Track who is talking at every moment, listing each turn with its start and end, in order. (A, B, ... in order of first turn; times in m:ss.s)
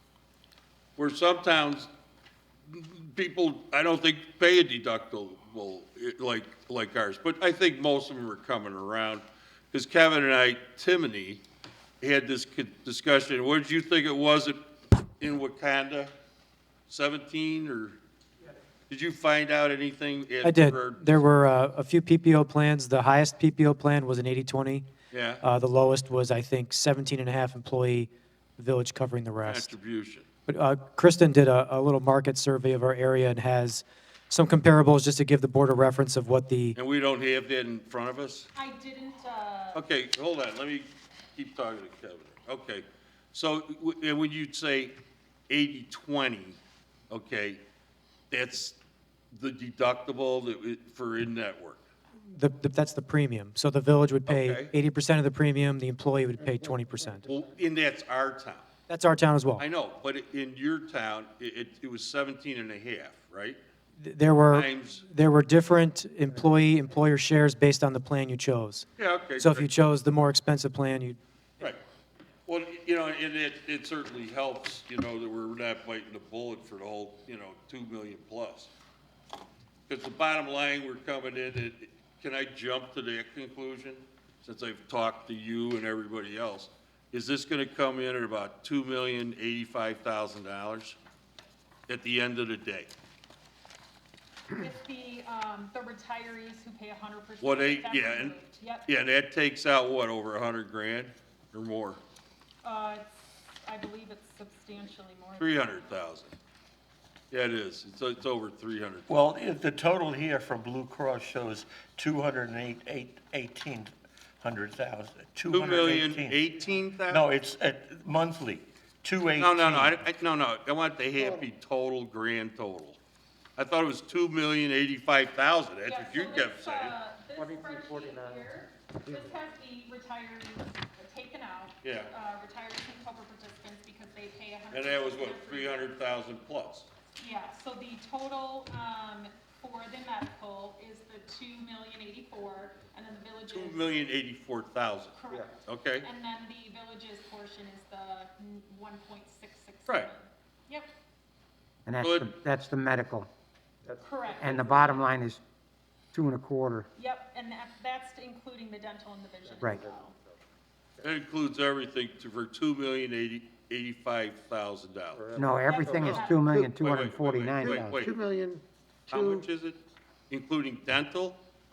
0:01.0-0:01.9 A
0:02.7-0:11.4 A
0:12.0-0:14.6 A
0:15.2-0:16.1 A
0:16.9-0:18.0 A
0:18.9-0:21.2 A
0:20.4-0:24.8 B
0:25.1-0:25.4 A
0:25.4-0:29.7 B
0:29.4-0:30.2 A
0:30.5-0:36.8 B
0:36.7-0:38.5 A
0:38.5-0:39.8 C
0:39.7-0:45.0 A
0:45.5-0:46.6 A
0:47.1-0:47.6 A
0:48.3-0:48.8 A
0:49.3-0:51.8 A
0:52.3-0:57.3 B
0:54.3-0:54.7 A
0:57.3-0:58.7 A
0:58.9-0:59.6 B
0:59.6-1:03.6 A
1:04.0-1:08.8 B
1:04.5-1:05.0 A
1:09.0-1:09.7 A
1:09.4-1:11.2 B
1:12.5-1:18.7 A
1:19.9-1:31.0 A
1:31.9-1:32.9 A
1:34.5-1:38.9 C
1:37.4-1:38.3 A
1:38.9-1:42.0 A
1:42.6-1:43.0 C
1:43.6-1:45.9 C
1:45.4-1:46.3 A
1:47.3-1:49.2 A
1:49.1-1:56.5 D
1:55.5-1:57.2 A
1:57.1-2:00.0 D
1:59.3-2:03.0 A
2:03.6-2:07.0 A
2:05.8-2:15.9 C
2:07.4-2:08.4 E
2:11.8-2:12.1 A
2:14.7-2:16.9 A
2:17.2-2:24.1 C
2:23.5-2:26.1 A
2:25.2-2:30.9 C
2:31.8-2:33.3 F
2:32.0-2:32.3 A
2:33.9-2:35.0 E
2:34.0-2:35.1 C
2:34.4-2:35.4 F
2:36.1-2:36.9 F
2:37.0-2:40.1 C
2:39.6-2:39.8 F
2:39.6-2:40.1 E
2:41.0-2:45.3 A
2:45.1-2:46.1 E
2:45.4-2:48.0 F
2:45.6-2:46.6 C
2:46.0-2:48.3 A
2:48.0-2:48.6 E
2:49.1-2:51.4 A